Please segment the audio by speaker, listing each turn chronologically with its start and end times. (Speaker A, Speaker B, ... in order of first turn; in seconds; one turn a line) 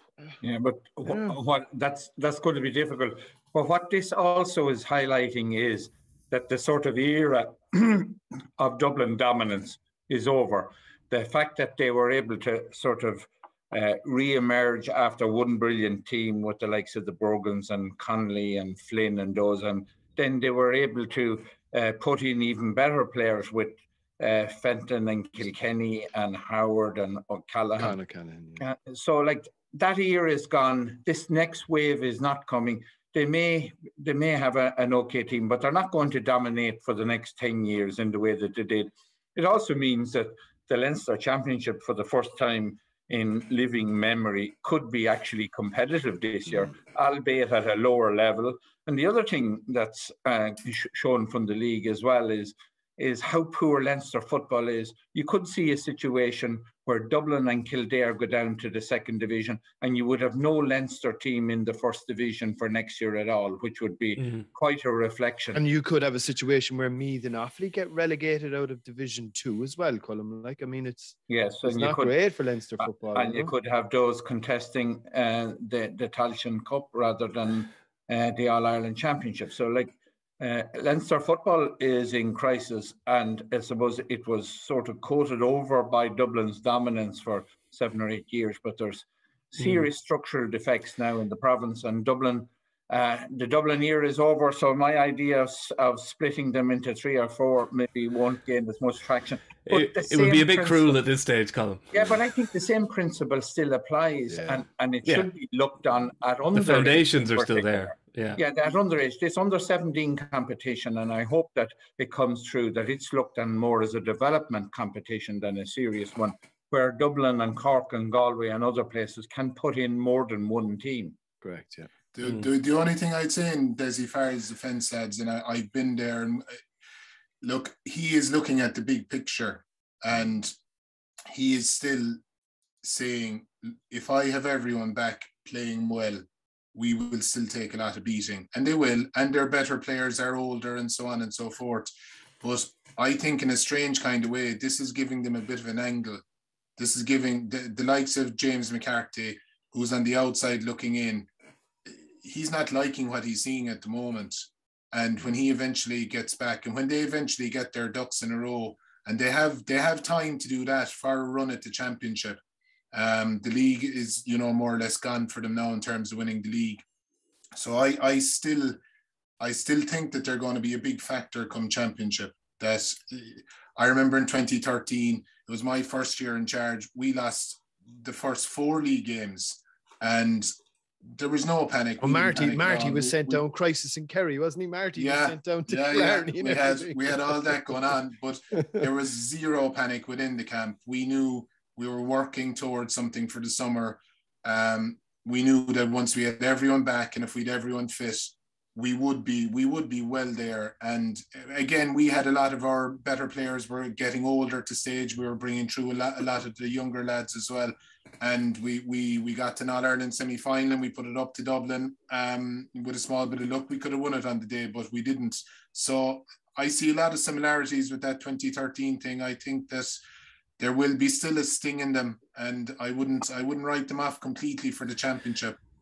Speaker A: 0.4-28.0
Speaker B: 1.0-1.4
Speaker B: 27.8-28.6
Speaker A: 28.6-65.6
Speaker B: 65.5-73.5
Speaker A: 71.3-72.2
Speaker A: 72.8-101.0
Speaker C: 99.7-102.2
Speaker A: 101.9-121.2
Speaker B: 104.3-104.6
Speaker C: 106.5-108.4
Speaker B: 121.4-121.9
Speaker D: 122.1-126.6
Speaker D: 127.4-130.5
Speaker D: 131.3-132.2
Speaker D: 132.8-136.2
Speaker D: 136.7-146.2
Speaker D: 146.8-151.3
Speaker D: 151.9-162.4
Speaker D: 162.9-166.8
Speaker D: 167.6-168.8
Speaker D: 169.4-180.5
Speaker D: 181.1-183.4
Speaker B: 182.0-187.6
Speaker D: 185.0-220.0
Speaker D: 220.6-225.6